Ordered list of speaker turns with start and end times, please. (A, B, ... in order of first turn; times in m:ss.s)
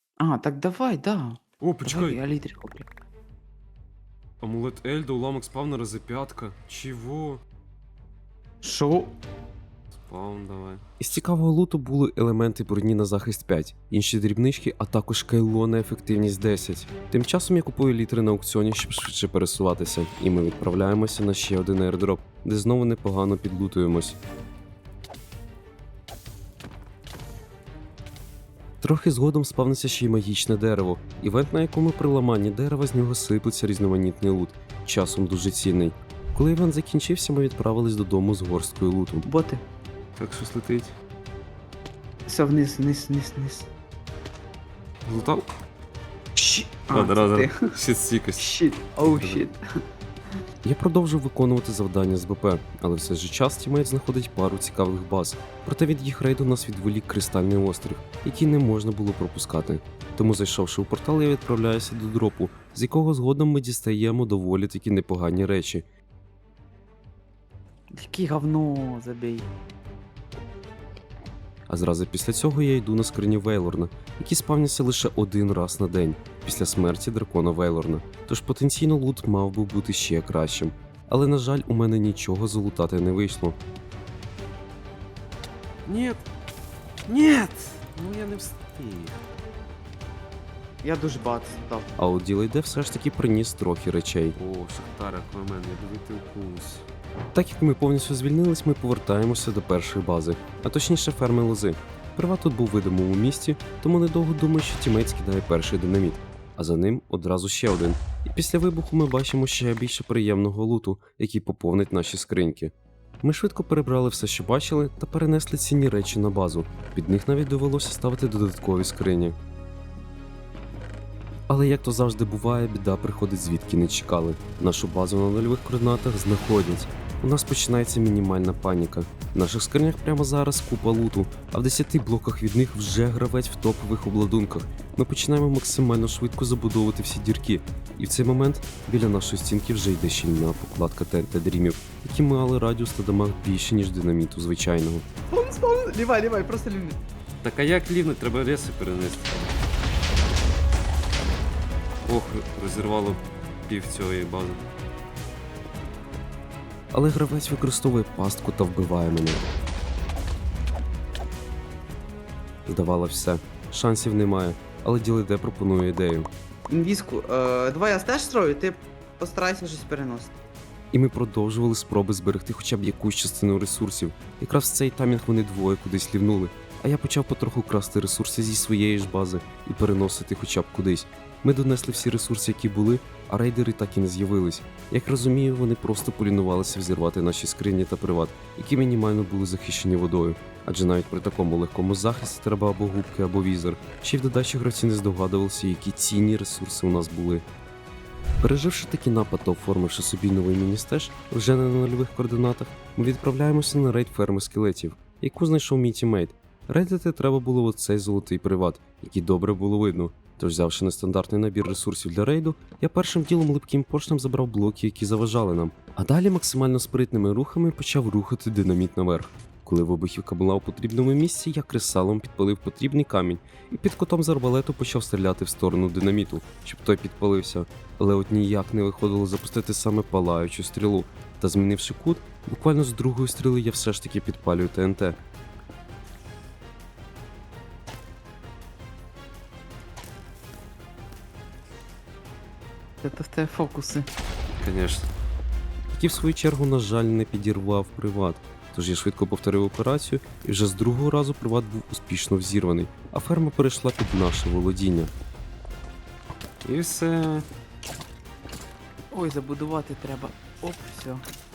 0:00.2-0:02.9 A
0:01.6-0:02.2 B
0:04.4-0:07.4 B
0:08.6-0:09.1 A
0:10.0-0:10.8 B
0:11.0-0:24.2 C
0:28.8-0:39.3 C
0:39.2-0:39.6 A
0:40.2-0:40.9 B
0:42.3-0:43.7 A
0:45.1-0:45.5 B
0:46.4-0:47.7 A
0:46.9-0:49.4 B
0:48.4-0:49.6 A
0:50.6-1:05.8 C
1:07.9-1:09.5 A
1:11.7-1:23.6 C
1:25.9-1:26.2 B
1:27.1-1:29.2 B
1:30.8-1:31.9 A
1:32.0-1:34.4 C
1:34.4-1:36.8 B
1:37.3-1:59.4 C
2:01.5-2:25.0 C
2:25.3-2:27.0 A
2:27.4-2:29.3 B
2:32.0-2:34.6 B
2:36.9-2:39.4 C
2:42.7-2:46.3 C
2:46.7-2:50.3 A
2:50.9-3:17.4 C
3:18.4-3:55.2 C
4:03.0-4:04.1 A
4:04.6-4:05.1 B
4:05.9-4:15.1 C
4:16.6-4:17.4 B
4:19.1-4:21.2 A